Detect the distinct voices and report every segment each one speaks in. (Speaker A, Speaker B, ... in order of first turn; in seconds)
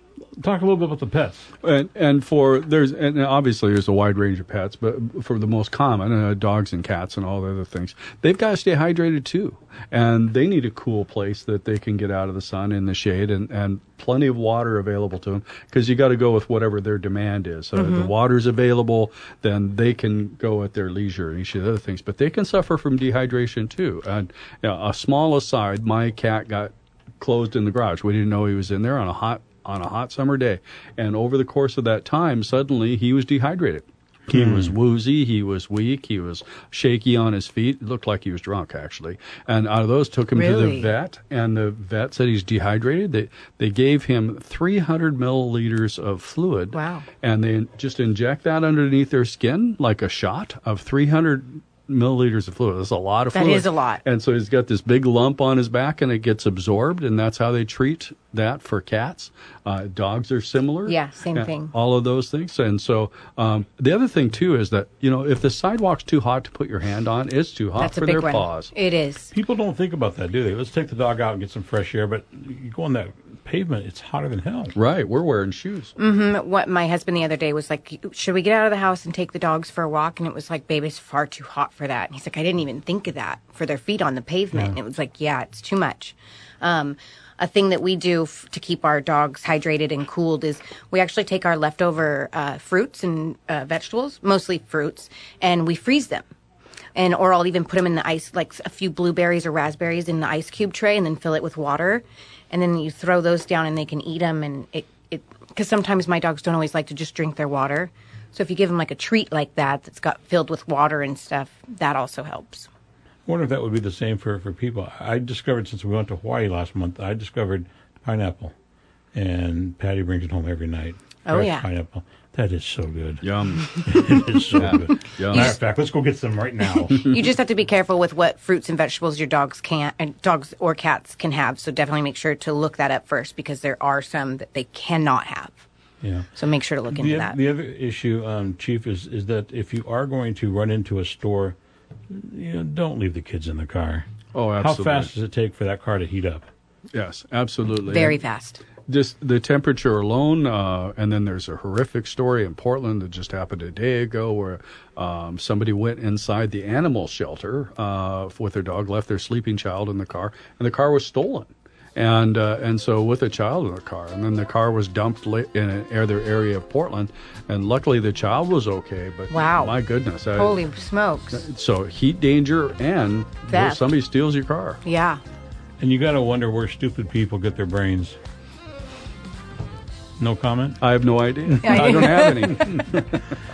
Speaker A: 0.4-1.5, 34.3-34.7, 69.3-74.8, 113.2-118.5, 119.1-127.3, 136.0-136.3, 136.9-141.6, 142.1-146.5, 175.8-178.2, 180.2-180.8, 181.5-182.9
Speaker B: 1.6-68.7, 74.8-75.9, 123.2-123.8, 124.5-125.5, 144.3-145.1, 146.9-148.2, 148.9-170.6, 171.3-174.8, 180.8-183.2
Speaker C: 17.7-18.1, 40.3-40.9, 46.7-47.1, 53.3-54.0, 60.9-61.7, 67.8-69.3, 76.0-96.3, 96.9-112.7, 121.2-121.7, 125.3-125.6, 126.9-135.6, 136.3-137.4, 147.9-148.6, 169.3-169.7, 170.3-171.5, 173.5-173.9, 174.8-175.2, 181.6-182.6